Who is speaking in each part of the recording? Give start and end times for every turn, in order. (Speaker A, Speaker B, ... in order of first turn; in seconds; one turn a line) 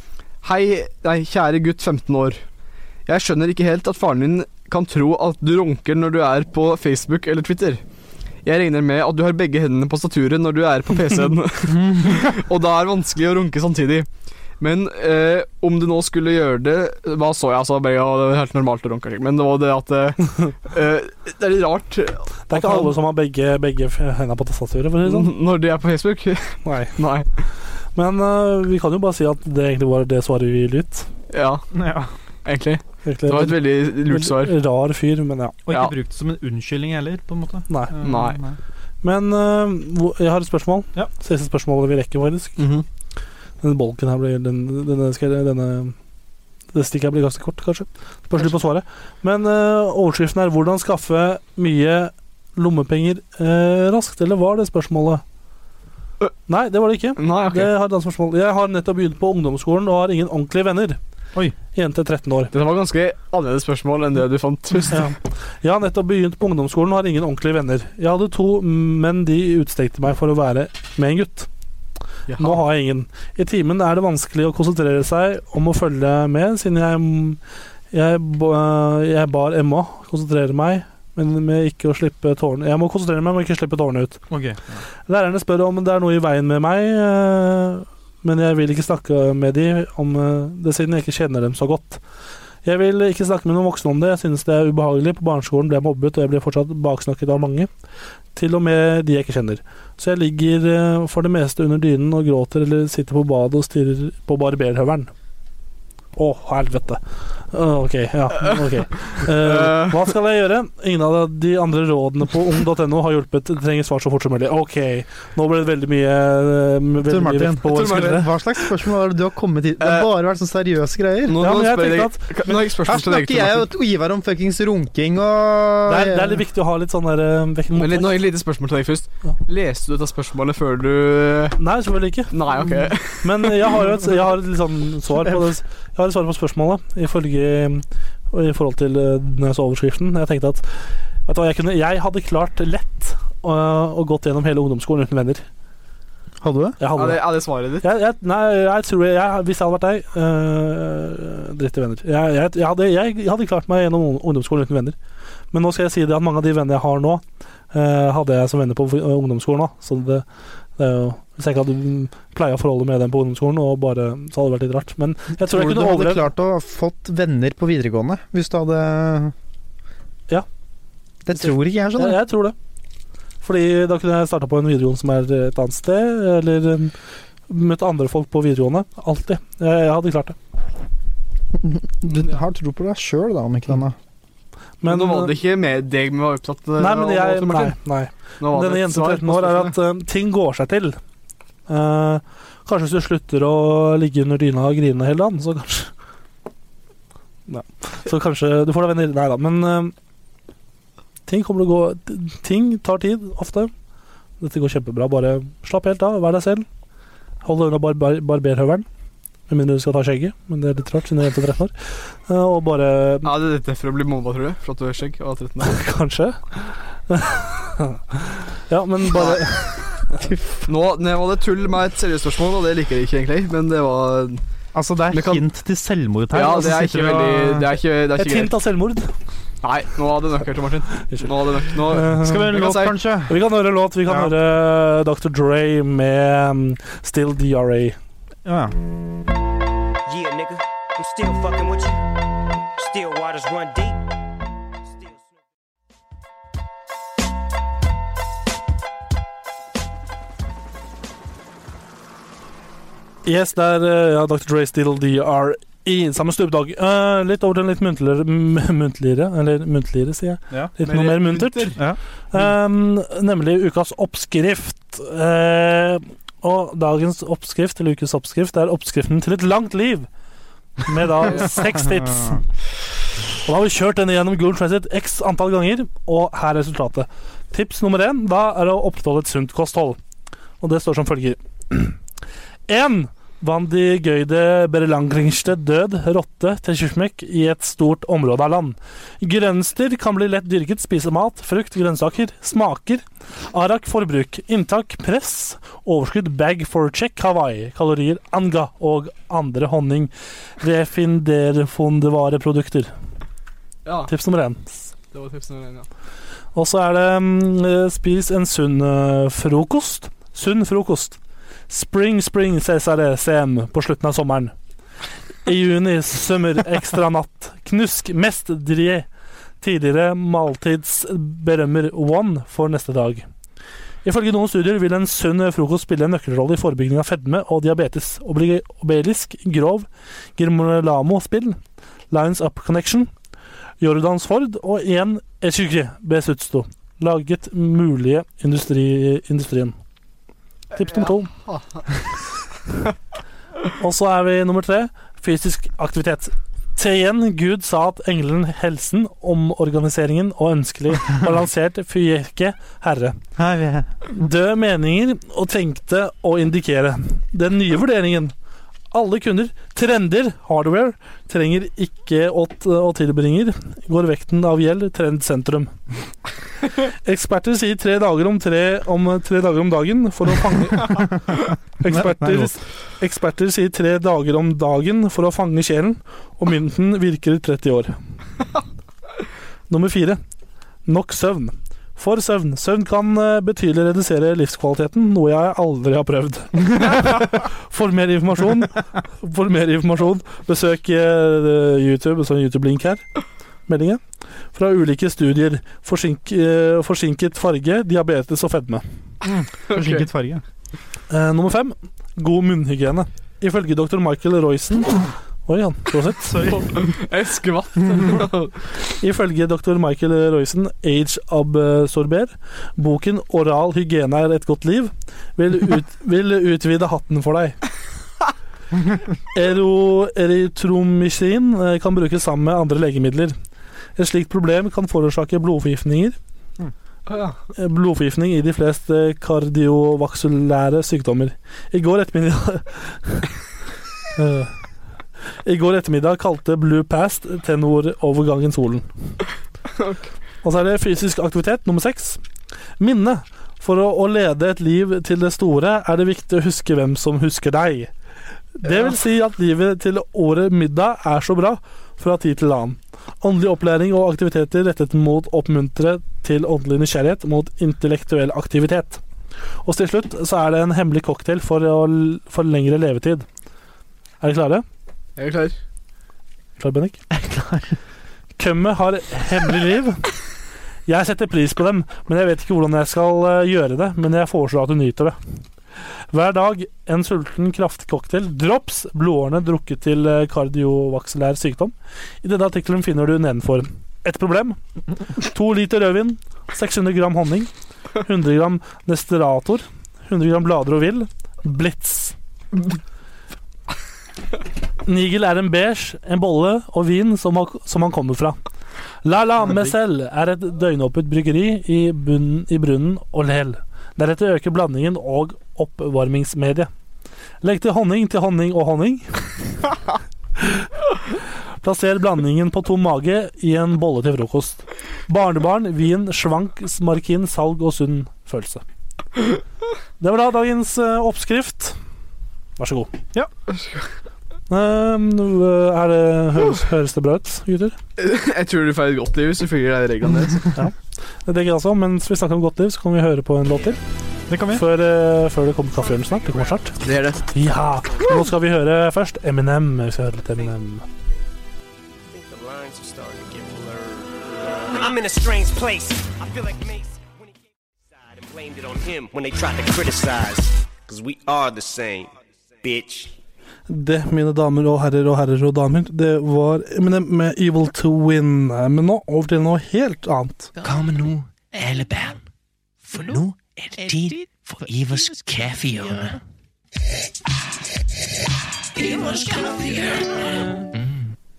Speaker A: 0.4-2.4
Speaker A: 3.1-7.8
Speaker A: 8.4-14.1
Speaker B: 11.7-12.2
Speaker A: 14.6-22.9
Speaker C: 22.5-25.3
Speaker A: 25.1-27.3
Speaker C: 26.6-26.9
Speaker C: 27.9-31.1
Speaker A: 31.3-31.7
Speaker B: 31.7-32.1
Speaker A: 32.5-34.5
Speaker C: 33.0-35.6
Speaker B: 35.7-38.6
Speaker C: 37.7-38.0
Speaker A: 38.0-38.4
Speaker C: 39.0-42.6
Speaker A: 42.6-42.9
Speaker C: 43.6-46.0
Speaker C: 46.7-55.2
Speaker C: 56.5-61.0
Speaker A: 57.2-57.7
Speaker C: 61.7-62.5
Speaker A: 62.5-65.1
Speaker C: 64.9-71.5
Speaker A: 72.3-72.6
Speaker C: 72.4-77.4
Speaker C: 77.9-84.2
Speaker B: 84.3-84.8
Speaker C: 85.1-92.0
Speaker C: 92.6-97.7
Speaker C: 98.3-105.1
Speaker C: 106.2-107.0
Speaker C: 107.5-118.3
Speaker A: 109.3-110.0
Speaker A: 117.7-118.7
Speaker D: 118.2-121.4
Speaker A: 119.8-120.1
Speaker A: 121.2-123.7
Speaker C: 121.4-122.3
Speaker D: 122.9-126.3
Speaker C: 125.8-128.2
Speaker A: 127.8-131.6
Speaker C: 131.6-132.4
Speaker A: 132.3-133.8
Speaker C: 133.2-140.7
Speaker C: 141.2-145.4
Speaker B: 146.4-146.8
Speaker C: 146.8-147.2
Speaker A: 147.0-147.8
Speaker C: 147.8-155.0
Speaker C: 155.5-160.2
Speaker C: 160.8-166.3
Speaker D: 165.7-169.3
Speaker D: 171.3-172.1
Speaker C: 171.4-172.6
Speaker C: 173.4-176.9
Speaker C: 177.5-180.4
Speaker D: 182.2-183.5
Speaker C: 184.8-185.3
Speaker A: 184.8-187.8
Speaker C: 186.8-191.0
Speaker A: 188.4-189.7
Speaker C: 191.7-195.9
Speaker C: 197.5-199.9
Speaker C: 201.3-203.7
Speaker C: 204.4-206.7
Speaker C: 207.4-208.9
Speaker C: 209.5-211.8
Speaker C: 212.3-213.3
Speaker A: 213.2-215.8
Speaker C: 215.6-220.2
Speaker A: 219.1-219.4
Speaker A: 220.7-224.4
Speaker B: 224.7-227.7
Speaker A: 225.1-225.4
Speaker A: 226.3-228.5
Speaker C: 228.2-229.1
Speaker A: 229.6-233.0
Speaker C: 231.1-232.6
Speaker B: 232.1-233.4
Speaker C: 233.3-238.0
Speaker B: 234.1-234.3
Speaker B: 238.4-238.8
Speaker E: 240.1-242.1
Speaker E: 242.8-244.0
Speaker E: 244.8-245.3
Speaker C: 253.2-261.8
Speaker A: 260.8-261.8
Speaker C: 262.3-270.1
Speaker C: 270.9-272.4
Speaker C: 273.4-280.0
Speaker C: 280.6-282.0
Speaker C: 282.7-302.9
Speaker A: 303.9-304.1
Speaker C: 304.1-304.9
Speaker A: 305.1-305.9
Speaker C: 306.6-311.2
Speaker C: 311.7-314.5
Speaker C: 315.4-319.1
Speaker C: 319.6-323.3
Speaker C: 324.1-331.6
Speaker C: 332.1-333.1
Speaker C: 333.8-339.8
Speaker C: 340.7-341.3
Speaker C: 343.8-353.2
Speaker B: 353.4-353.9
Speaker C: 354.1-358.3
Speaker C: 358.9-365.7
Speaker C: 367.0-371.1
Speaker C: 371.8-377.9
Speaker B: 371.9-372.5
Speaker C: 379.7-380.2
Speaker C: 380.9-393.0
Speaker C: 393.7-394.0
Speaker C: 394.5-398.8
Speaker B: 399.2-400.4
Speaker A: 399.7-400.1
Speaker C: 401.1-406.4
Speaker B: 406.3-406.7
Speaker A: 406.5-408.6
Speaker C: 409.0-417.6
Speaker C: 419.3-423.4
Speaker C: 424.0-426.2
Speaker A: 427.1-427.4
Speaker C: 427.6-433.3
Speaker C: 434.2-434.5
Speaker C: 435.4-438.9
Speaker A: 439.8-440.1
Speaker C: 440.4-442.2
Speaker C: 442.8-447.9
Speaker C: 448.6-459.0
Speaker C: 459.6-463.3
Speaker C: 464.2-464.6
Speaker A: 465.2-465.6
Speaker C: 466.6-467.0
Speaker B: 467.1-467.7
Speaker C: 468.4-470.1
Speaker C: 470.9-475.2
Speaker C: 476.1-484.6
Speaker C: 485.1-487.5
Speaker C: 488.0-492.1
Speaker C: 494.9-498.4
Speaker C: 499.0-506.7
Speaker C: 507.4-509.3
Speaker C: 510.4-510.6
Speaker C: 511.6-518.6
Speaker C: 520.0-521.8
Speaker C: 522.6-522.9
Speaker A: 523.5-523.9
Speaker C: 524.5-527.8
Speaker A: 528.0-530.5
Speaker C: 531.3-533.8
Speaker B: 534.3-534.6
Speaker C: 534.5-536.8
Speaker E: 536.0-536.6
Speaker A: 536.8-537.3
Speaker C: 537.3-540.9
Speaker E: 542.1-553.1
Speaker C: 553.7-560.5
Speaker F: 560.6-562.2
Speaker F: 562.9-566.2
Speaker F: 568.9-570.0